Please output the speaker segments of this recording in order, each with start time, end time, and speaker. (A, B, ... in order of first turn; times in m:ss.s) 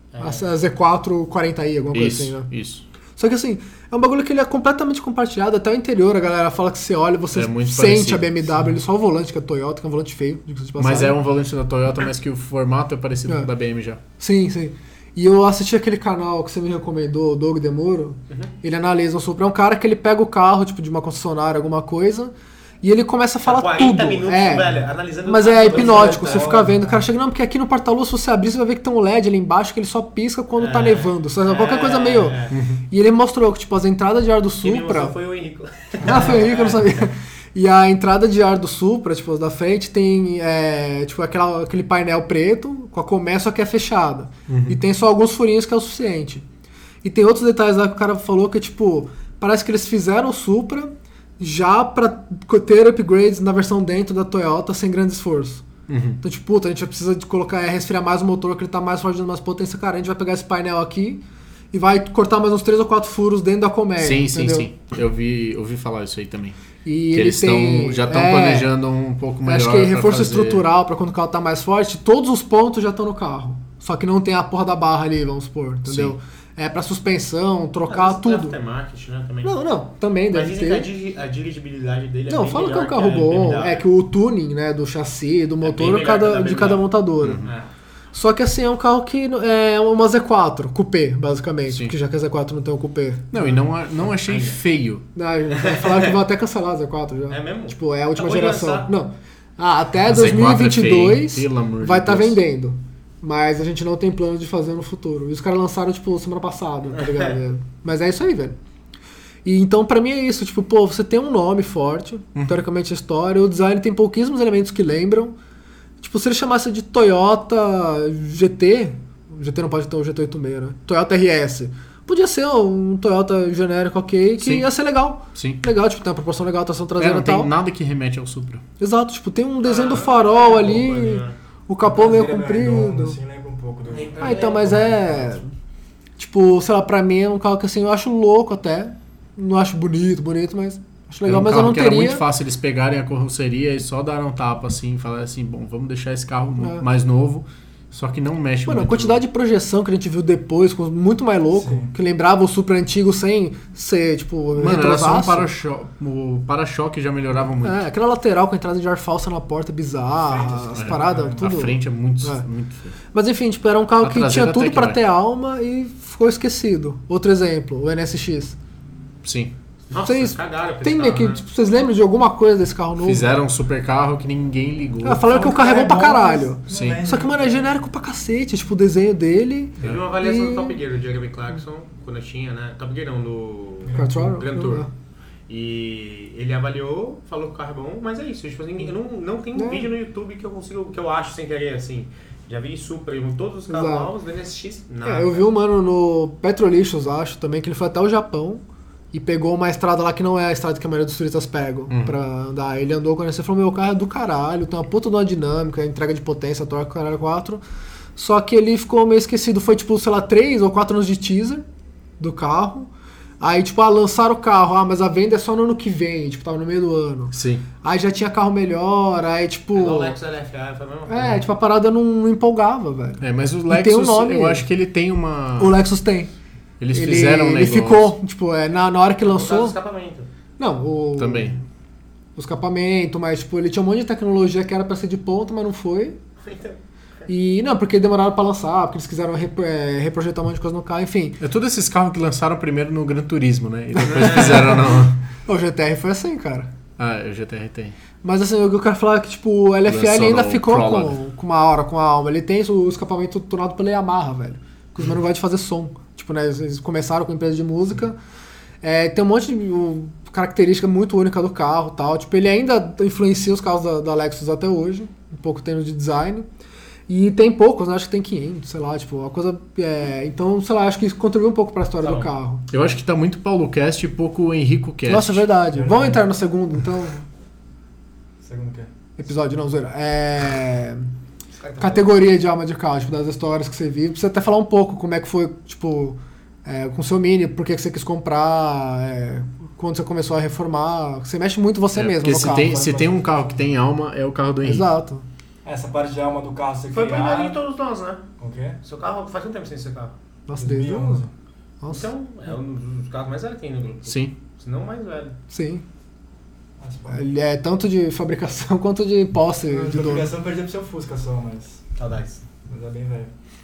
0:00.1-0:00.5 A
0:00.2-0:02.5 B
0:01.9-0:02.9 C
0:03.2-0:11.2 B
0:07.3-0:08.8 C
0:10.8-0:14.0 C
0:14.2-0:35.2 B
0:23.4-0:26.6 A
0:25.6-0:27.1 D
0:30.6-0:32.6 A
0:32.5-0:32.8 C
0:34.6-0:37.0 A
0:36.0-0:46.4 B
0:44.5-0:44.8 C
0:47.0-0:55.6 B
0:55.9-0:56.2 C
0:56.2-1:04.7 B
1:04.0-1:06.6 C
1:06.8-1:08.7 B
1:07.1-1:10.7 C
1:09.4-1:18.6 B
1:15.9-1:16.2 C
1:17.9-1:19.7 A
1:19.4-1:20.9 B
1:20.3-1:23.9 A
1:22.3-1:27.5 B
1:25.6-1:26.9 A
1:27.2-1:27.5 C
1:27.4-1:27.7 A
1:28.1-1:33.6 B
1:31.7-1:32.0 C
1:33.3-1:35.1 C
1:34.1-1:34.6 A
1:35.2-1:48.6 B
1:35.5-1:36.2 A
1:37.3-1:38.9 A
1:40.0-1:42.4 C
1:47.0-1:47.4 A
1:49.4-1:55.4 B
1:52.4-1:52.6 C
1:56.0-2:07.5 B
2:04.4-2:04.7 C
2:05.3-2:05.6 C
2:07.0-2:08.6 C
2:08.8-2:13.2 B
2:09.6-2:11.4 A
2:11.8-2:15.4 D
2:13.9-2:15.2 A
2:14.2-2:15.5 B
2:16.2-2:22.2 B
2:21.2-2:29.2 C
2:26.6-2:26.8 B
2:28.7-2:35.5 B
2:31.5-2:32.0 D
2:34.6-2:37.9 C
2:37.6-2:42.4 B
2:40.2-2:41.6 D
2:40.7-2:43.0 C
2:43.1-2:48.6 B
2:44.0-2:45.0 C
2:49.2-2:49.6 C
2:49.9-2:51.4 A
2:50.0-2:53.3 B
2:53.0-2:55.3 C
2:55.0-3:00.8 B
2:55.2-2:57.8 D
2:56.7-2:57.0 C
2:59.8-3:04.9 A
3:03.8-3:04.4 D
3:03.9-3:04.9 B
3:05.5-3:15.5 A
3:09.6-3:09.9 B
3:13.7-3:14.1 B
3:15.0-3:27.6 B
3:21.9-3:22.2 C
3:28.2-3:31.7 B
3:32.2-3:40.2 B
3:37.3-3:37.7 C
3:39.7-3:41.4 A
3:41.1-3:44.7 B
3:43.2-3:45.8 C
3:45.6-3:46.3 B
3:46.8-3:48.2 C
3:46.9-3:49.8 B
3:49.2-3:50.3 A
3:50.6-3:51.6 B
3:51.2-3:51.6 C
3:52.4-3:56.2 B
3:56.4-3:57.3 A
3:57.3-4:01.4 B
4:01.4-4:05.2 C
4:04.0-4:06.7 B
4:07.0-4:08.0 C
4:08.2-4:18.2 B
4:09.8-4:11.2 C
4:18.8-4:26.5 B
4:27.1-4:32.6 B
4:32.0-4:32.3 A
4:32.7-4:35.5 C
4:35.1-4:37.2 B
4:35.7-4:36.3 D
4:38.4-4:38.9 D
4:39.2-4:41.1 B
4:41.5-4:42.2 A
4:41.8-4:52.9 B
4:51.9-4:54.9 C
4:52.3-4:53.7 D
4:54.6-4:55.3 B
4:55.6-4:57.6 D
4:56.9-4:58.2 A
4:58.4-4:58.8 D
4:58.8-5:00.2 A
5:00.5-5:01.2 B
5:00.5-5:01.3 D
5:01.8-5:02.1 B
5:01.9-5:05.4 A
5:04.1-5:04.4 C
5:05.5-5:05.8 B
5:06.8-5:07.2 D
5:07.1-5:10.3 B
5:09.7-5:11.8 D
5:12.0-5:12.4 A
5:12.6-5:13.3 D